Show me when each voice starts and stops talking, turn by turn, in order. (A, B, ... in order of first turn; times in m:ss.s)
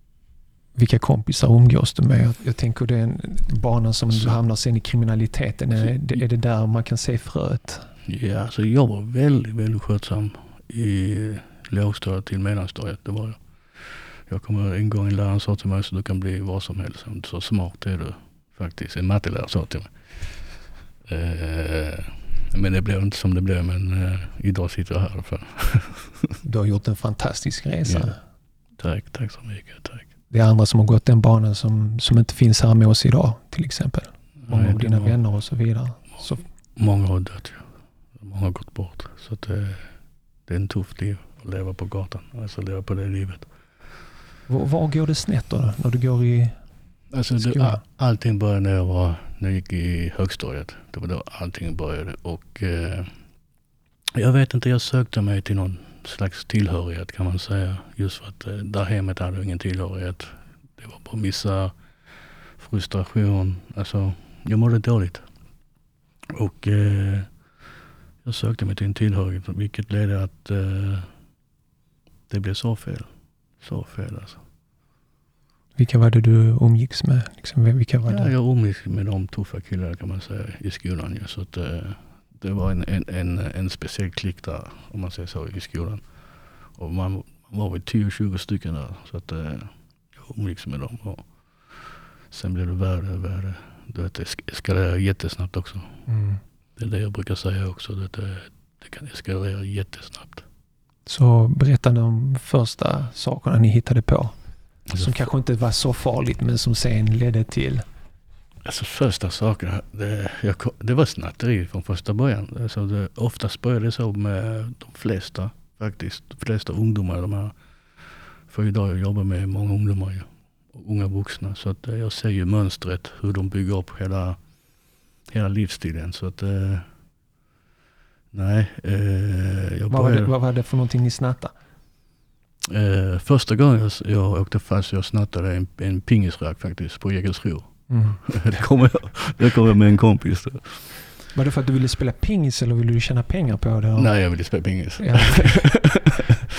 0:00.7-0:07.9 A
0:05.8-0:06.2 B
0:08.0-0:26.3 B
0:26.4-0:28.2 A
0:27.8-0:28.1 B
0:28.7-0:30.1 B
0:30.3-0:36.4 A
0:34.4-0:35.2 B
0:36.8-0:39.9 B
0:40.4-0:43.5 B
0:44.5-0:46.6 A
0:47.1-0:53.1 B
0:47.4-0:47.8 A
0:54.1-1:01.7 B
1:02.6-1:05.3 B
1:06.3-1:07.3 B
1:08.2-1:11.1 B
1:12.3-1:14.4 B
1:15.8-1:18.3 A
1:18.1-1:36.1 B
1:36.1-1:36.4 A
1:36.8-1:40.4 B
1:41.0-1:44.4 A
1:44.9-1:45.2 B
1:45.0-1:47.8 A
1:48.6-2:04.4 B
2:05.2-2:06.9 B
2:08.3-2:10.3 B
2:09.9-2:11.5 A
2:12.7-2:21.0 B
2:17.9-2:18.3 A
2:21.3-2:24.3 A
2:24.0-2:26.2 B
2:25.0-2:25.9 A